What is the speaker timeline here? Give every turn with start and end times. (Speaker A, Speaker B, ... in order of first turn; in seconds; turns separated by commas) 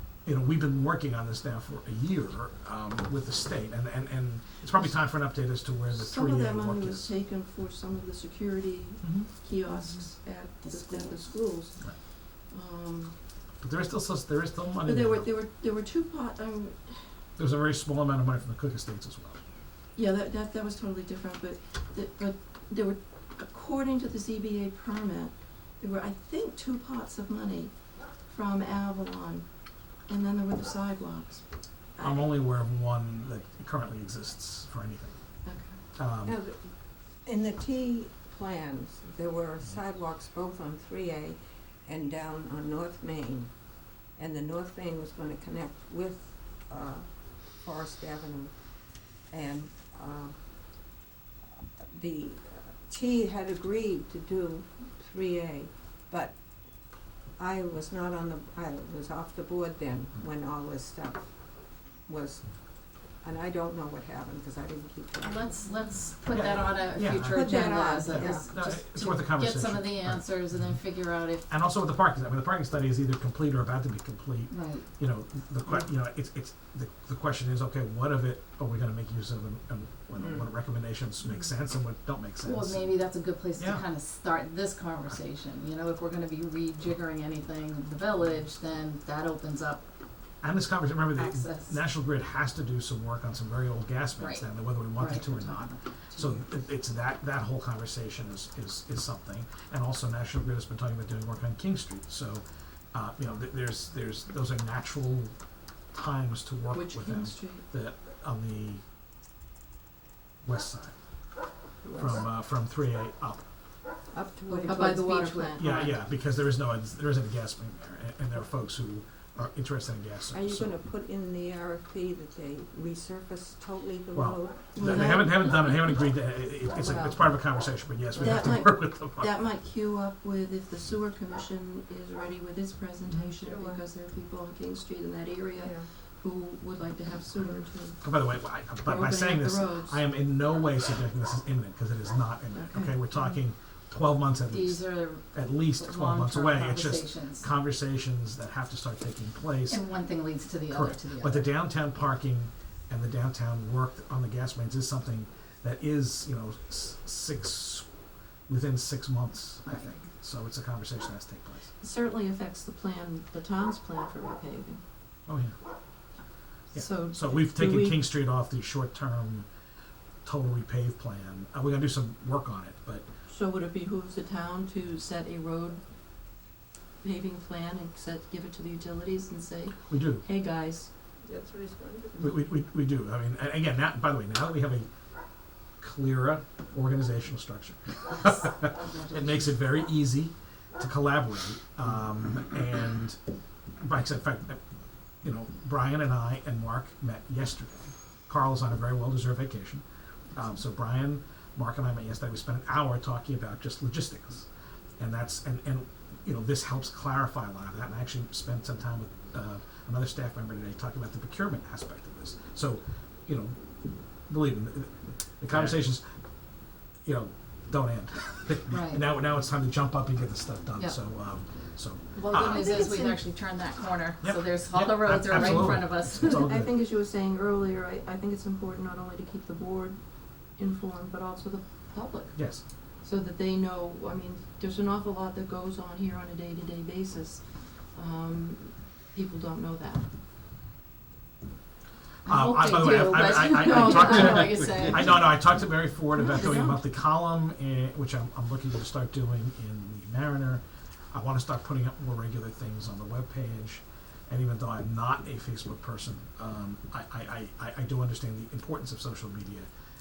Speaker A: 0.2-7.1, Speaker B: 5.9-11.8, Speaker C: 10.6-11.3, Speaker B: 12.5-13.1, Speaker A: 13.6-15.3, Speaker B: 14.8-17.0, Speaker A: 17.4-19.4, Speaker B: 19.9-27.7, Speaker B: 28.3-29.4, Speaker B: 30.1-31.4, Speaker B: 31.9-32.3, Speaker A: 32.0-35.2, Speaker B: 35.4-35.8, Speaker A: 36.0-36.4, Speaker D: 36.2-36.7, Speaker D: 37.2-43.5, Speaker D: 44.1-47.0, Speaker D: 47.6-48.5, Speaker D: 49.3-50.3, Speaker D: 51.5-56.4, Speaker D: 57.4-62.5, Speaker D: 63.2-65.7, Speaker C: 65.2-71.5, Speaker A: 66.3-70.3, Speaker D: 67.3-68.5, Speaker A: 71.5-82.9, Speaker C: 74.5-74.9, Speaker D: 80.2-80.5, Speaker C: 82.4-89.8, Speaker A: 83.6-83.8, Speaker A: 90.4-105.3, Speaker C: 91.1-91.8, Speaker C: 94.2-96.5, Speaker A: 105.9-108.8, Speaker B: 106.7-107.7, Speaker A: 110.4-110.9, Speaker D: 111.8-112.3, Speaker A: 112.0-113.4, Speaker D: 114.1-115.1, Speaker B: 114.5-115.8, Speaker C: 114.7-115.7, Speaker A: 115.6-120.7, Speaker D: 120.3-125.2, Speaker A: 124.1-129.3, Speaker B: 124.7-125.4, Speaker D: 126.7-127.3, Speaker D: 128.2-128.4, Speaker B: 128.2-138.0, Speaker D: 133.1-133.8, Speaker D: 135.6-135.9, Speaker A: 138.0-149.8, Speaker B: 138.8-140.0, Speaker B: 142.5-143.2, Speaker C: 144.5-147.4, Speaker C: 149.7-151.5, Speaker A: 150.7-157.9, Speaker A: 158.5-161.7, Speaker C: 159.7-159.9, Speaker B: 161.8-164.8, Speaker A: 165.3-165.6, Speaker B: 166.7-168.0, Speaker A: 166.7-169.5, Speaker A: 170.2-173.0, Speaker B: 173.3-175.8, Speaker B: 177.0-180.9, Speaker A: 179.9-180.2, Speaker D: 181.2-182.4, Speaker A: 182.2-184.9, Speaker A: 185.8-193.2, Speaker C: 188.2-189.4, Speaker A: 193.8-194.6, Speaker A: 195.2-199.8, Speaker A: 200.3-204.5, Speaker A: 205.0-213.6, Speaker A: 214.3-216.0, Speaker A: 217.0-222.7, Speaker C: 218.7-219.0, Speaker C: 222.2-226.4, Speaker B: 222.3-223.2, Speaker A: 224.2-226.8, Speaker B: 226.3-230.0, Speaker B: 230.6-232.4, Speaker A: 232.3-232.6, Speaker B: 233.0-237.4, Speaker B: 237.9-240.1, Speaker C: 242.2-245.2, Speaker A: 242.2-259.7, Speaker B: 243.6-244.9, Speaker B: 246.1-246.8